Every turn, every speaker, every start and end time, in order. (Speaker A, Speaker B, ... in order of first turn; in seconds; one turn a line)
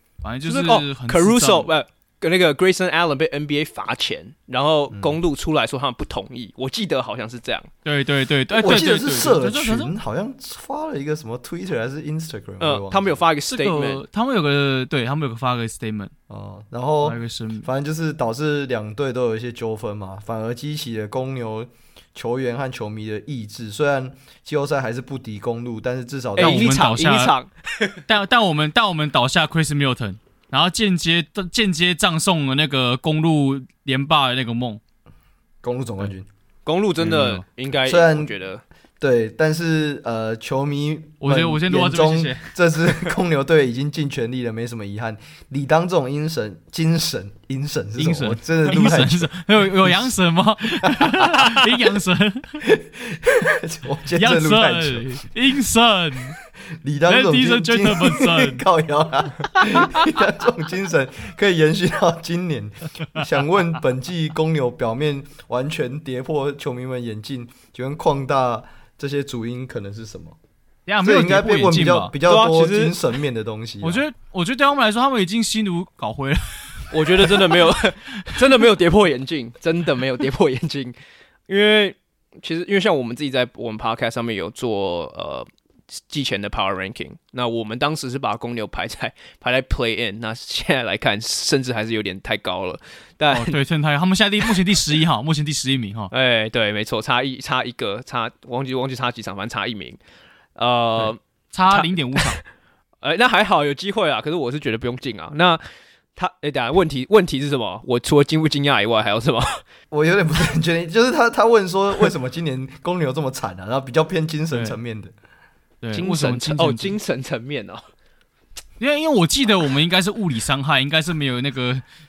Speaker A: 0.2-1.7
Speaker B: 0.5-7.7
Speaker C: 4.9-5.2
Speaker A: 7.8-9.9
Speaker C: 8.5-13.2
Speaker B: 12.6-14.0
Speaker A: 13.6-16.1
Speaker C: 16.3-26.7
Speaker A: 17.0-17.7
Speaker B: 26.4-28.0
Speaker A: 26.4-27.4
Speaker A: 28.1-34.8
Speaker C: 35.6-36.3
Speaker B: 36.7-38.6
Speaker A: 37.0-37.4
Speaker C: 37.9-38.3
Speaker C: 39.0-50.1
Speaker A: 41.2-42.5
Speaker A: 48.0-52.7
Speaker C: 50.8-51.7
Speaker C: 52.7-55.2
Speaker A: 54.2-56.4
Speaker C: 56.8-70.4
Speaker A: 57.1-58.6
Speaker A: 59.6-60.1
Speaker A: 70.9-72.1
Speaker C: 71.0-74.0
Speaker B: 72.2-73.0
Speaker A: 73.8-78.6
Speaker B: 76.9-81.0
Speaker B: 81.5-93.6
Speaker A: 93.3-96.1
Speaker B: 96.1-100.0
Speaker B: 100.6-101.2
Speaker A: 101.0-102.4
Speaker B: 101.7-102.4
Speaker B: 103.0-105.6
Speaker B: 106.2-109.6
Speaker C: 109.9-115.1
Speaker A: 114.5-114.8
Speaker A: 115.8-117.0
Speaker B: 115.9-117.8
Speaker A: 118.8-121.8